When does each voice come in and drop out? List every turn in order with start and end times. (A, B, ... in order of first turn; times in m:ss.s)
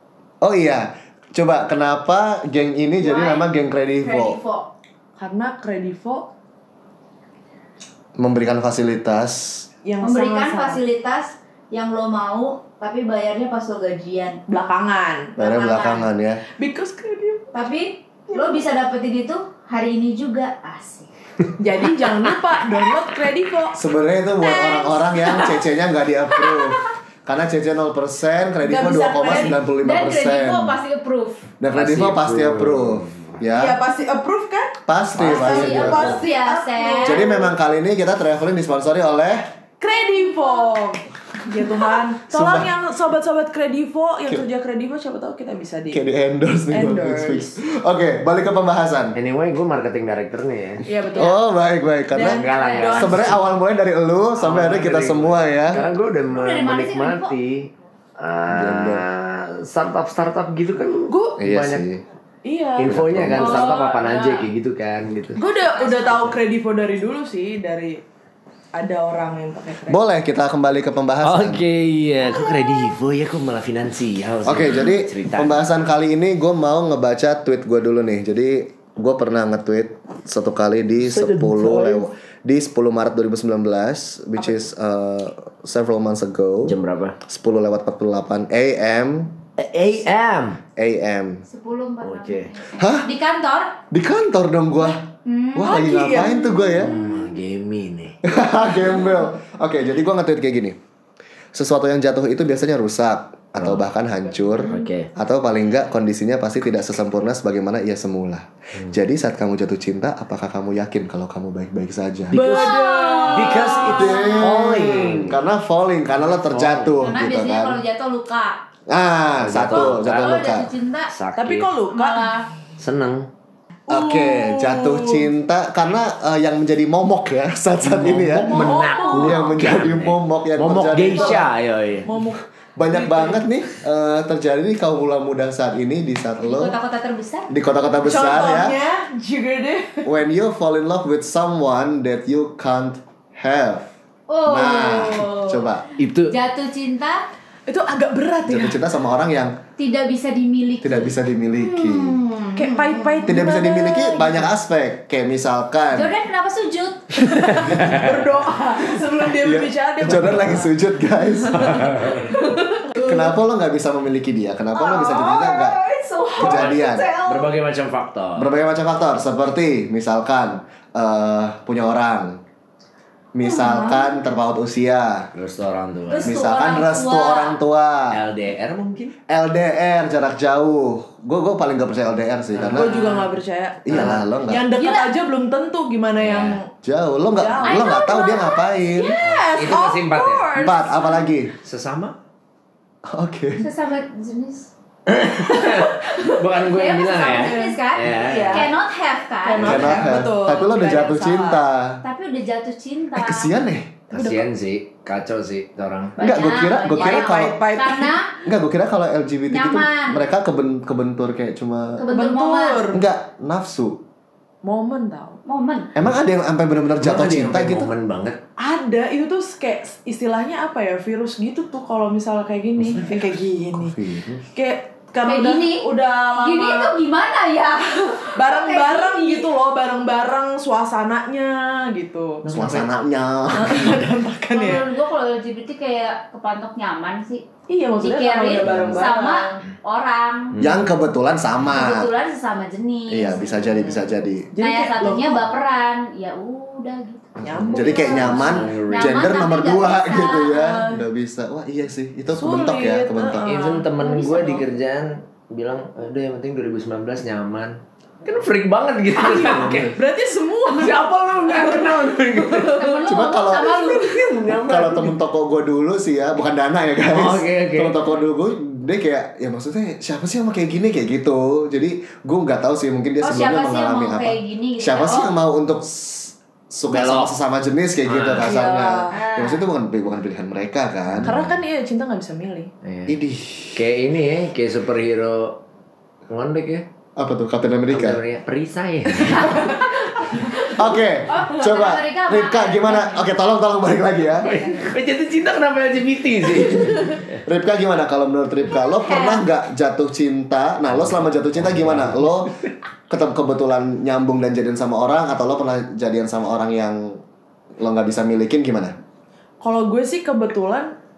0:00.4-0:04.4 A
0:03.0-0:03.5 B
0:04.0-0:04.7 B
0:05.2-0:06.3 C
0:08.2-0:09.7 A
0:09.8-0:10.8 C
0:10.0-0:14.4 B
0:14.5-0:15.4 C
0:15.4-0:16.4 A
0:15.4-0:16.1 B
0:16.5-0:17.5 C
0:17.5-0:21.1 B
0:18.3-0:18.6 C
0:21.6-0:23.8 C
0:23.7-0:30.8 A
0:24.4-0:25.6 B
0:26.3-0:26.8 B
0:28.6-0:29.6 C
0:29.4-0:31.4 B
0:31.6-0:33.8 A
0:31.7-0:33.3 D
0:33.5-0:37.5 C
0:34.9-0:36.2 A
0:35.2-0:35.7 D
0:35.3-0:37.2 B
0:37.0-0:39.4 A
0:39.8-0:46.1 C
0:40.1-0:40.7 B
0:42.3-0:42.7 A
0:45.9-0:49.2 A
0:46.7-0:47.6 C
0:49.1-0:50.9 D
0:50.8-0:51.4 C
0:51.1-0:52.4 A
0:52.1-0:53.4 C
0:52.2-0:53.5 D
0:52.4-0:52.9 B
0:52.9-0:55.8 A
0:54.4-1:01.8 D
0:56.3-0:57.3 B
0:58.5-0:59.0 A
1:01.1-1:01.4 C
1:01.4-1:02.0 A
1:02.4-1:03.8 C
1:02.8-1:05.4 D
1:02.8-1:03.7 A
1:03.4-1:04.5 B
1:05.4-1:08.0 C
1:05.4-1:06.3 B
1:08.8-1:10.0 C
1:09.9-1:11.6 A
1:11.2-1:15.6 D
1:14.4-1:26.8 A
1:21.0-1:22.1 D
1:24.4-1:24.6 C
1:26.6-1:27.2 D
1:27.3-1:29.4 A
1:29.6-1:30.6 D
1:30.8-1:31.4 A
1:31.5-1:33.8 B
1:32.0-1:32.6 D
1:32.8-1:33.1 A
1:33.9-1:36.9 A
1:35.2-1:35.9 B
1:35.6-1:36.9 C
1:36.8-1:38.2 D
1:38.2-1:40.8 A
1:41.5-1:52.4 A
1:43.6-1:43.9 D
1:44.6-1:45.1 D
1:52.3-1:55.4 D
1:52.3-1:54.3 C
1:52.4-1:54.3 B
1:53.9-1:57.8 A
1:56.1-1:57.1 D
1:57.0-1:58.6 B
1:58.9-2:00.7 A
1:59.4-2:00.3 D
1:59.7-2:01.1 B
2:01.1-2:01.7 D
2:01.4-2:02.4 C
2:01.9-2:02.5 B
2:02.8-2:03.3 D
2:03.9-2:05.3 C
2:03.9-2:11.5 A
2:07.8-2:12.1 D
2:08.5-2:09.6 B
2:08.5-2:09.4 C
2:11.1-2:11.4 C
2:12.0-2:13.5 C
2:12.8-2:16.8 A
2:16.4-2:17.5 B
2:17.5-2:18.8 A
2:18.0-2:20.1 C
2:20.0-2:23.9 A
2:24.3-2:25.7 B
2:24.4-2:25.9 A
2:26.0-2:26.4 D
2:26.3-2:27.2 B
2:27.7-2:28.8 C
2:28.4-2:29.6 A
2:29.8-2:33.4 B
2:30.8-2:32.2 A
2:32.6-2:34.5 C
2:33.2-2:36.2 A
2:35.9-2:37.2 B
2:37.3-2:38.1 D
2:37.4-2:40.7 C
2:39.4-2:41.8 A
2:41.4-2:43.3 C
2:41.6-2:42.3 D
2:43.0-2:45.8 A
2:44.7-2:47.5 B
2:46.4-2:47.1 A
2:46.4-2:48.5 D
2:48.4-2:52.4 A
2:53.4-2:55.3 A
2:53.5-2:54.0 C
2:55.3-2:56.4 D
2:56.1-2:57.6 B
2:56.2-2:58.2 A
2:58.1-2:59.1 D
2:59.3-3:03.0 A
3:02.5-3:03.3 D
3:02.7-3:06.7 C
3:03.8-3:04.6 A
3:03.9-3:04.3 D
3:04.7-3:05.1 B
3:06.2-3:06.6 D
3:06.8-3:09.2 A
3:07.3-3:08.0 C
3:07.6-3:09.2 B
3:09.1-3:11.1 C
3:09.2-3:10.5 D
3:10.6-3:11.5 A
3:11.6-3:12.2 D
3:13.1-3:13.7 A
3:13.6-3:14.7 B
3:15.1-3:18.7 D
3:15.5-3:19.9 B
3:17.2-3:18.7 C
3:19.4-3:21.6 C
3:19.6-3:22.0 A
3:19.6-3:20.1 D
3:22.0-3:23.5 B
3:23.1-3:24.0 A
3:24.1-3:26.2 D
3:24.1-3:24.5 C
3:26.2-3:28.4 B
3:26.2-3:27.6 A
3:27.0-3:28.2 C
3:28.4-3:32.0 A
3:29.5-3:30.3 B
3:32.0-3:32.9 B
3:32.1-3:33.0 C
3:32.9-3:34.0 A
3:34.6-3:35.4 C
3:35.5-3:35.9 B
3:36.0-3:37.9 A
3:37.0-3:38.4 D
3:38.6-3:44.0 C
3:43.7-3:44.5 A
3:44.5-3:47.0 C
3:45.2-3:45.9 B
3:46.4-3:49.5 B
3:48.4-3:52.4 C
3:52.4-3:52.9 D
3:52.5-3:54.0 A
3:53.5-3:54.9 C
3:54.5-3:57.5 B
3:57.7-3:59.6 C
3:58.0-4:00.6 B
3:58.6-3:59.0 D
4:00.5-4:00.9 D
4:00.6-4:02.1 A
4:01.7-4:03.7 B
4:03.1-4:04.5 A
4:04.5-4:05.5 C
4:04.6-4:10.8 B
4:07.4-4:08.6 C
4:07.5-4:13.5 A
4:08.1-4:09.2 D
4:12.4-4:13.9 C
4:13.4-4:20.0 D
4:13.7-4:14.6 B
4:19.1-4:23.0 C
4:19.5-4:20.0 A
4:20.7-4:22.8 D
4:22.8-4:24.3 B
4:23.0-4:41.4 A
4:24.0-4:25.2 D
4:27.1-4:28.0 D
4:33.2-4:35.4 B
4:36.9-4:37.4 D
4:38.0-4:38.6 D
4:38.4-4:39.2 C
4:39.1-4:39.6 B
4:41.2-4:41.5 D
4:41.2-4:42.7 C
4:42.8-4:43.2 D
4:43.1-4:43.8 A
4:43.8-4:45.6 D
4:46.3-4:46.8 D
4:47.2-4:48.2 A
4:47.9-4:49.8 D
4:49.3-4:53.4 B
4:50.6-4:54.5 A
4:54.3-4:57.4 D
4:57.4-5:02.5 A
4:58.7-4:59.4 B
5:00.9-5:02.4 D
5:03.1-5:07.2 A
5:07.8-5:09.0 A
5:09.6-5:10.9 C